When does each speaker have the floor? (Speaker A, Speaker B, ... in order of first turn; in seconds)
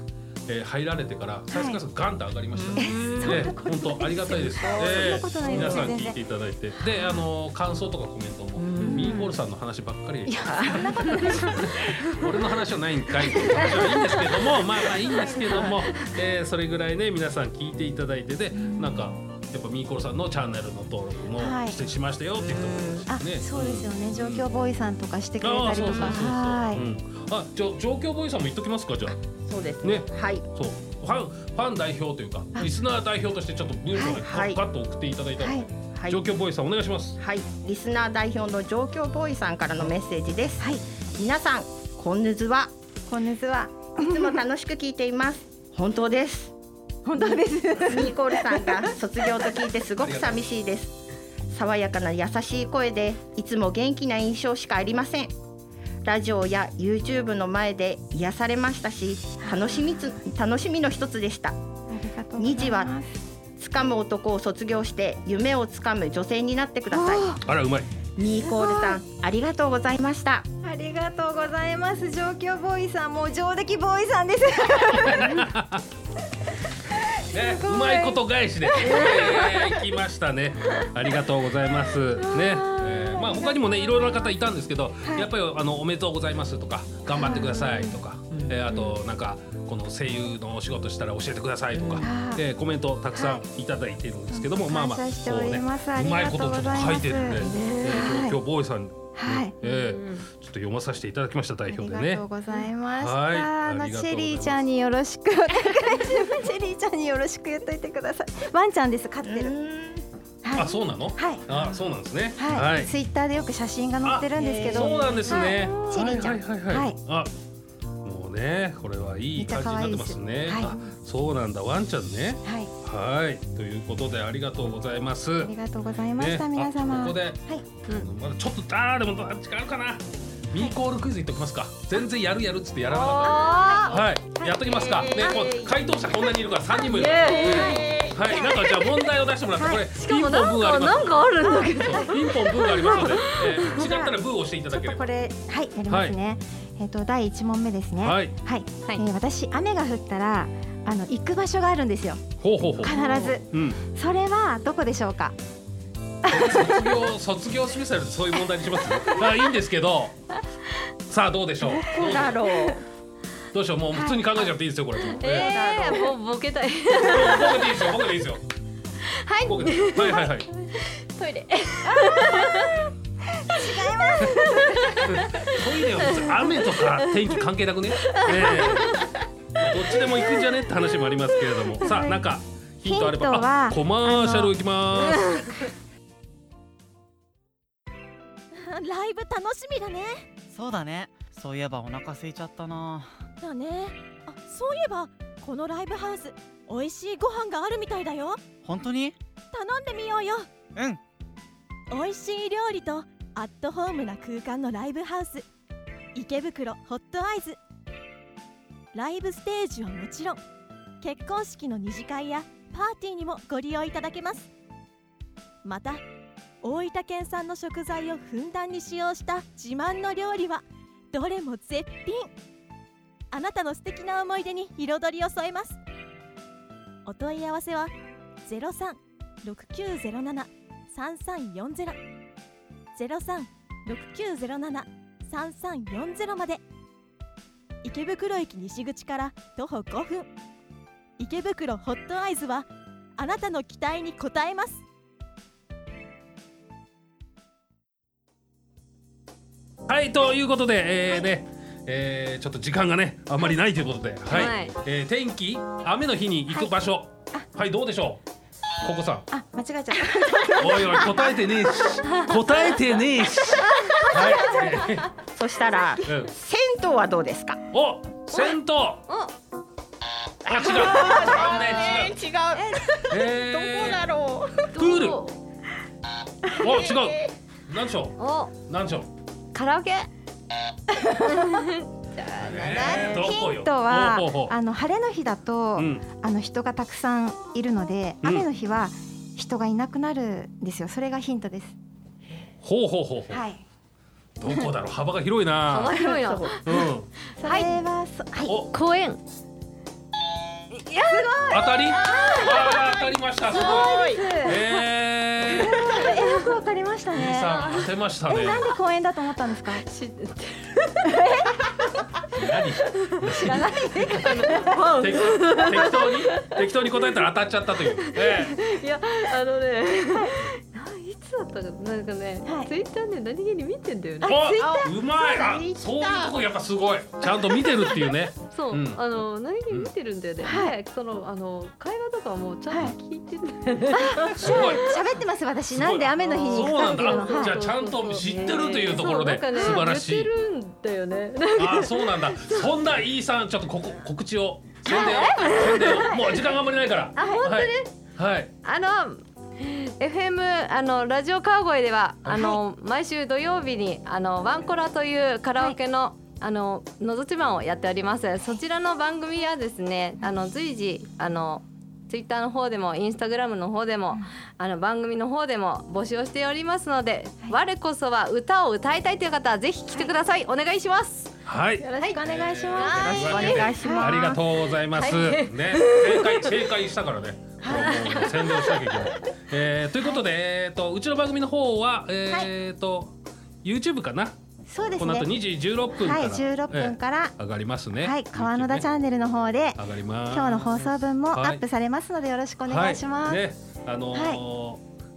Speaker A: 0.5-24.5, 25.4-29.2, 29.8-37.2, 50.0-50.4, 67.4-67.9, 75.0-75.8, 77.3-102.3, 102.9-104.7, 110.5-112.9, 114.0-117.3, 118.0-125.5, 126.2-145.1, 145.9-146.2, 148.0-148.3, 152.4-153.8, 156.3-160.1, 161.1-162.5, 163.5-165.5, 166.9-168.4, 169.4-170.5, 175.0-178.9, 179.6-185.3, 249.9-258.2, 258.8-259.3, 260.6-265.1, 266.0-266.3, 267.7-269.0, 270.5-272.1, 273.1-274.0, 274.8-275.2, 276.6-279.1, 282.4-284.5, 285.8-286.1, 288.2-288.5, 292.6-293.4, 294.4-296.0, 296.6-297.1, 298.4-298.7, 301.5-305.9, 307.1-308.7, 312.3-314.3, 315.0-318.6, 324.2-329.0, 329.7-329.9, 334.3-334.9, 335.7-340.3, 341.5-348.5, 352.2-352.6, 371.4-384.3, 385.0-388.9, 389.8-391.6, 392.6-394.8
Speaker B: 1.5-1.8, 2.8-6.2, 6.8-7.2, 8.8-9.3, 10.3-12.1, 13.2-15.8, 18.5-19.1, 21.4-21.8, 23.1-26.8, 33.9-34.2, 35.4-35.7, 43.1-44.4, 47.0-48.9, 59.4-60.2, 61.9-63.2, 66.9-67.4, 68.4-69.0, 70.6-75.5, 76.9-79.6, 83.1-83.5, 87.1-87.8, 92.0-92.4, 93.1-93.4, 94.3-98.4, 99.2-99.5, 101.7-109.5, 110.4-111.5, 112.3-117.0, 119.3-120.9, 122.4-122.7, 125.4-127.7, 133.2-134.6, 137.1-138.8, 139.6-139.8, 141.4-144.1, 144.7-152.2, 152.8-155.3, 156.2-157.0, 163.9-164.5, 173.4-175.0, 181.8-182.2, 182.8-184.5, 259.3-261.5, 263.6-264.8, 272.5-272.8, 282.2-291.8, 293.3-293.6, 294.4-294.7, 295.9-296.2, 297.4-298.6, 300.9-302.8, 303.5-304.6, 305.4-309.8, 311.0-311.5, 313.3-314.9, 322.4-322.7, 330.4-330.8, 332.7-332.9, 334.0-337.6, 345.9-346.2, 372.0-374.3, 377.6-378.1, 384.7-385.3, 385.9-387.4, 387.9-393.4, 394.1-394.4
Speaker C: 2.5-3.5, 4.5-6.0, 8.6-9.3, 10.5-11.4, 22.4-23.0, 29.2-30.5, 34.2-34.6, 35.9-36.2, 37.2-42.7, 44.0-46.5, 47.9-50.9, 51.5-55.3, 56.0-61.5, 62.4-62.9, 63.6-67.3, 68.2-70.4, 91.7-92.1, 109.2-110.0, 114.4-115.4, 134.6-135.9, 137.1-138.9, 152.9-153.3, 161.9-162.8, 165.2-166.1, 265.3-267.6, 270.4-274.7, 276.4-277.3, 296.0-296.6, 302.0-302.8, 303.5-304.3, 324.3-326.4, 372.9-374.4
Speaker D: 78.8-79.1, 97.4-98.1, 99.6-100.3, 132.9-134.0, 136.9-137.8, 139.9-143.8, 165.1-167.8, 169.0-172.9, 174.1-177.3, 178.0-179.1, 180.2-180.4, 185.1-185.6, 254.3-254.8, 268.3-268.6, 269.1-269.3, 274.7-275.4, 278.2-278.6, 279.5-280.1, 281.3-283.3, 295.7-296.9, 297.4-297.7, 298.7-299.2, 302.2-302.6, 306.0-306.5, 309.8-311.1, 312.9-316.5, 317.9-324.9, 328.4-334.9, 336.2-342.8, 344.8-346.5, 347.1-348.0, 348.6-373.5, 374.9-376.6, 377.6-378.9
Speaker E: 188.6-190.3, 193.4-198.4, 199.5-200.5, 201.9-205.4, 206.1-207.6, 208.9-210.4, 211.0-214.5, 215.6-216.0, 216.6-222.3, 223.3-225.8, 227.1-232.0, 232.9-236.6, 237.8-240.3, 241.2-244.8
Speaker F: 190.5-193.1, 198.6-199.2, 200.7-201.0